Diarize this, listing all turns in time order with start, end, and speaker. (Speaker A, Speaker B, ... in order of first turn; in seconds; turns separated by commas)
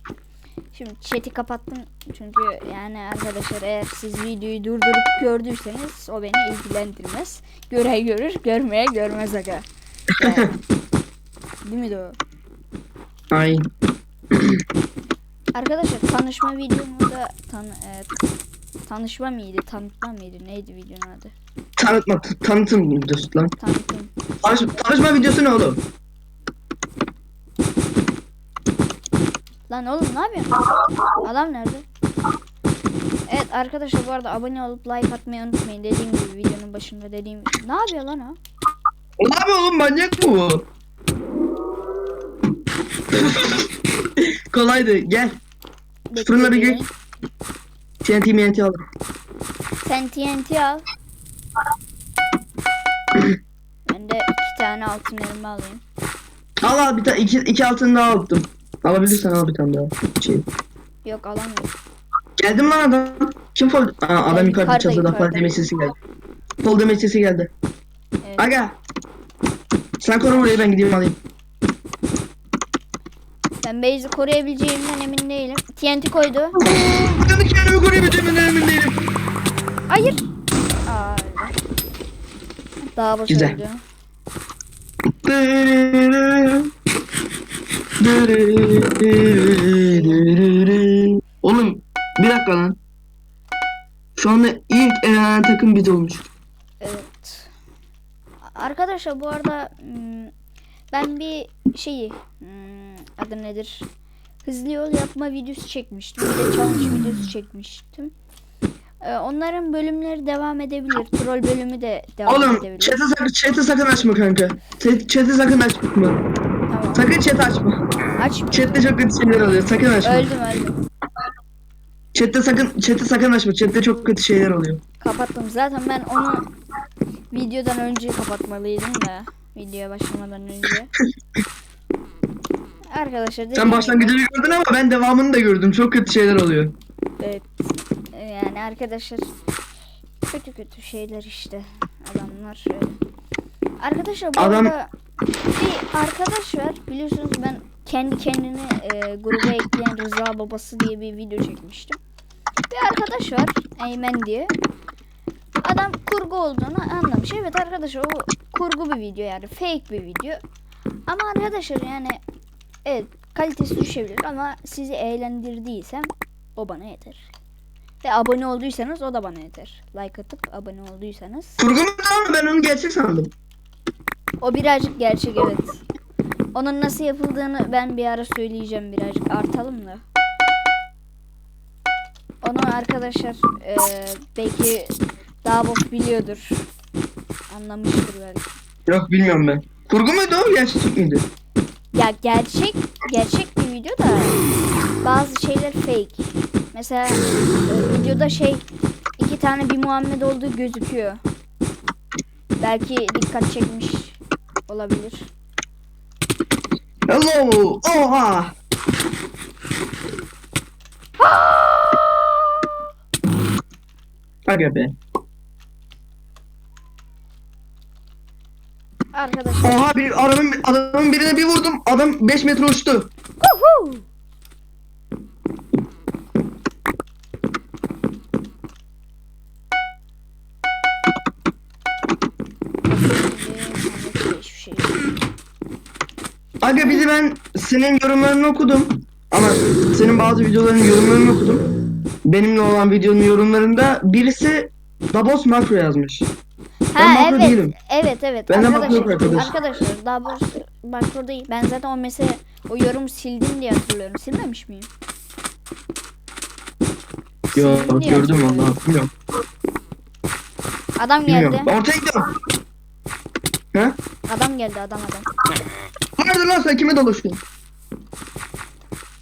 Speaker A: 0.7-9.7, Speaker A: 10.2-10.5, Speaker B: 10.2-10.5, Speaker A: 11.6-12.2, Speaker B: 13.3-13.7, Speaker B: 14.3-14.6, Speaker A: 15.6-18.1, Speaker A: 18.9-21.3, Speaker B: 21.8-23.6, Speaker A: 23.6-24.1, Speaker B: 24.4-25.8, Speaker A: 29.7-30.6, Speaker A: 31.2-31.9, Speaker A: 33.3-38.4, Speaker B: 39.2-40.6, Speaker B: 43.1-45.4, Speaker A: 46.1-46.9, Speaker B: 46.2-46.8, Speaker B: 48.0-48.8, Speaker A: 49.8-50.9, Speaker A: 53.9-55.8, Speaker B: 56.6-60.5, Speaker A: 61.0-61.7, Speaker B: 62.4-65.9, Speaker A: 64.3-65.6, Speaker B: 66.6-67.5, Speaker A: 68.2-68.5, Speaker B: 68.4-68.8, Speaker B: 70.0-71.2, Speaker A: 70.3-70.7, Speaker A: 73.6-76.6, Speaker B: 76.6-79.1, Speaker A: 79.9-80.2, Speaker A: 80.9-81.6, Speaker A: 83.0-83.8, Speaker B: 83.3-83.6, Speaker B: 85.2-86.7, Speaker B: 88.0-92.8, Speaker A: 89.9-90.2, Speaker B: 94.2-96.2, Speaker A: 96.8-97.5, Speaker A: 98.5-100.3, Speaker A: 100.9-103.9, Speaker A: 104.5-108.1, Speaker A: 109.0-113.0, Speaker B: 112.3-116.2, Speaker A: 116.7-117.1, Speaker B: 117.0-117.8, Speaker A: 118.2-118.9, Speaker B: 118.5-120.3, Speaker A: 120.0-120.8, Speaker B: 122.1-124.8, Speaker A: 125.0-126.5, Speaker A: 127.3-130.9, Speaker A: 132.9-134.2, Speaker B: 133.6-136.7, Speaker A: 137.2-139.3, Speaker A: 140.3-143.0, Speaker A: 143.8-144.9, Speaker B: 144.4-144.7, Speaker A: 145.6-152.0, Speaker A: 152.7-154.5, Speaker A: 155.6-160.4, Speaker A: 161.1-162.2, Speaker A: 162.9-167.3, Speaker A: 168.0-171.6, Speaker B: 171.6-173.3, Speaker A: 174.4-175.8, Speaker A: 176.5-180.0, Speaker A: 182.4-186.7, Speaker A: 187.5-188.6, Speaker B: 188.9-191.3, Speaker A: 191.9-194.4, Speaker A: 195.0-198.6, Speaker A: 199.2-201.2, Speaker A: 202.6-204.2, Speaker A: 204.7-205.3, Speaker B: 207.1-208.5, Speaker A: 211.2-212.0, Speaker B: 214.5-214.9, Speaker A: 219.1-219.8, Speaker B: 219.6-223.1, Speaker A: 223.4-224.1, Speaker A: 232.9-235.0, Speaker B: 236.6-241.7, Speaker B: 242.2-246.3, Speaker A: 246.9-254.9, Speaker B: 247.0-247.7, Speaker B: 248.5-249.6, Speaker A: 257.5-258.7, Speaker B: 257.6-259.1, Speaker A: 261.0-261.7, Speaker B: 261.3-262.3, Speaker A: 264.3-265.3, Speaker B: 266.2-267.4